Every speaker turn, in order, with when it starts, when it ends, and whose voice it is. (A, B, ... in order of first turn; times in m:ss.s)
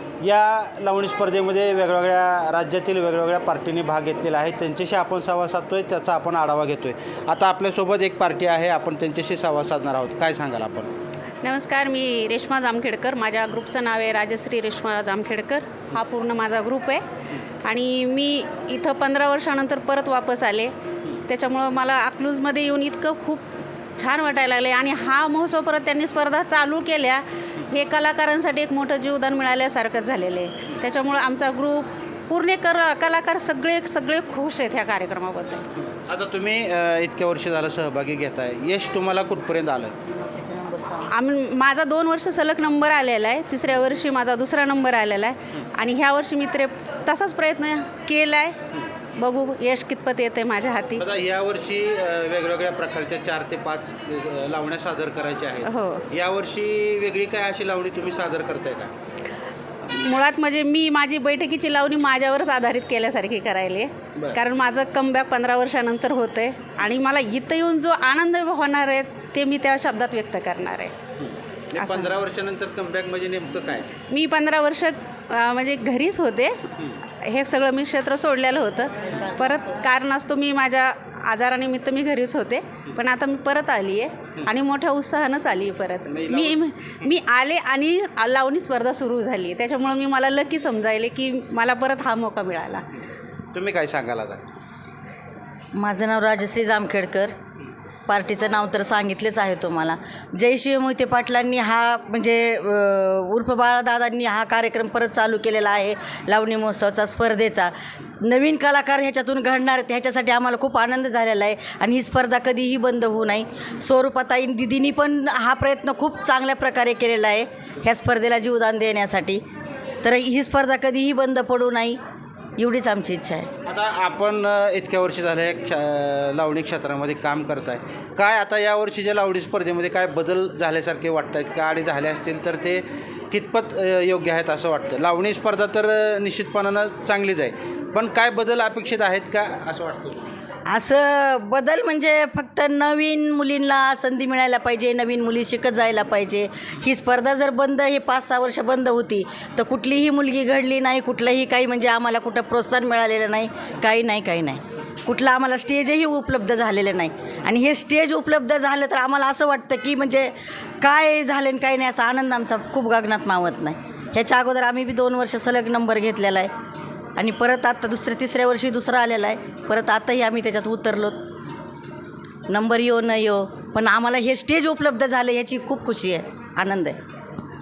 0:00.2-0:10.9 A
0:11.4-0:17.0 B
0:17.6-0:20.7 B
0:21.2-0:23.4 B
0:24.0-0:35.6 B
0:36.1-0:39.9 A
0:40.2-0:41.0 C
0:41.0-0:48.6 B
0:49.2-0:51.0 B
0:51.0-0:58.9 A
0:55.7-0:56.0 B
0:59.9-1:10.9 B
1:11.2-1:13.9 A
1:11.8-1:12.2 B
1:14.1-1:16.6 B
1:17.1-1:32.8 B
1:26.1-1:26.6 A
1:33.5-1:34.4 A
1:35.7-1:37.3 C
1:38.1-1:59.4 C
2:00.0-2:02.0 C
2:02.6-2:03.5 C
2:03.7-2:20.2 A
2:20.7-2:46.5 C
2:47.2-2:51.2 C
2:52.5-2:57.0 C